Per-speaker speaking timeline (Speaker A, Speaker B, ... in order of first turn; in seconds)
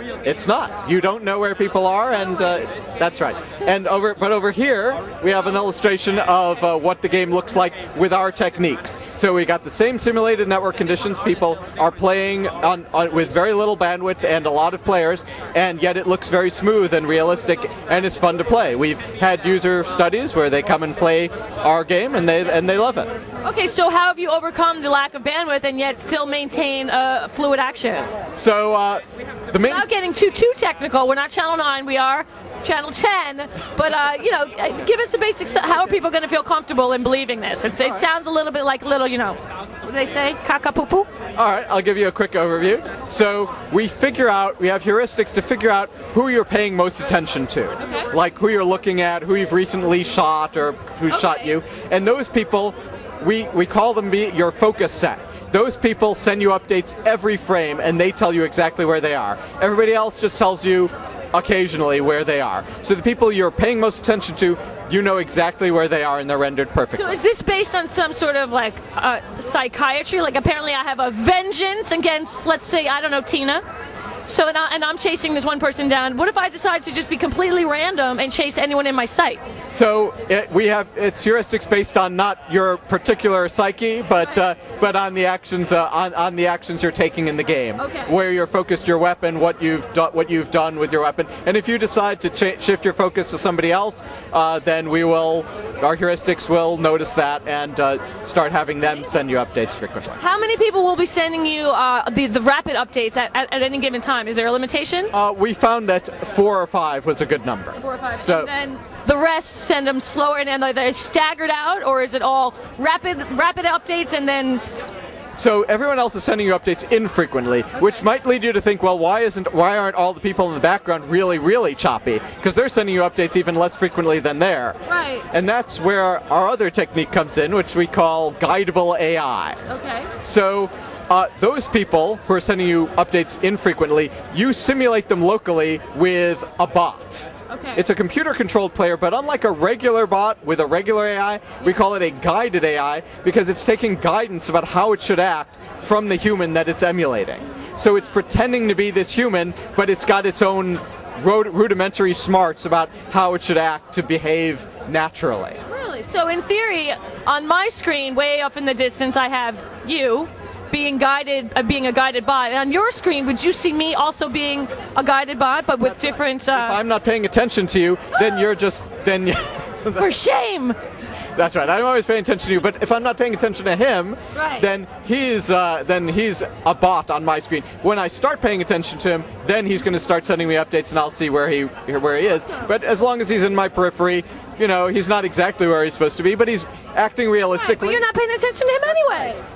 Speaker A: 0.2-23.1, 28.4-29.9, 41.4-67.2, 79.7-100.2, 105.1-108.5, 115.4-124.8, 125.3-129.6, 130.2-155.6, 166.5-170.1, 171.4-188.0
Speaker B: 23.4-28.1, 29.6-41.1, 51.1-51.5, 66.9-73.6, 74.3-79.4, 100.2-105.1, 107.8-114.9, 124.9-125.3, 129.7-130.1, 137.5-137.8, 155.7-166.8, 170.0-170.8, 174.3-174.7, 187.5-189.4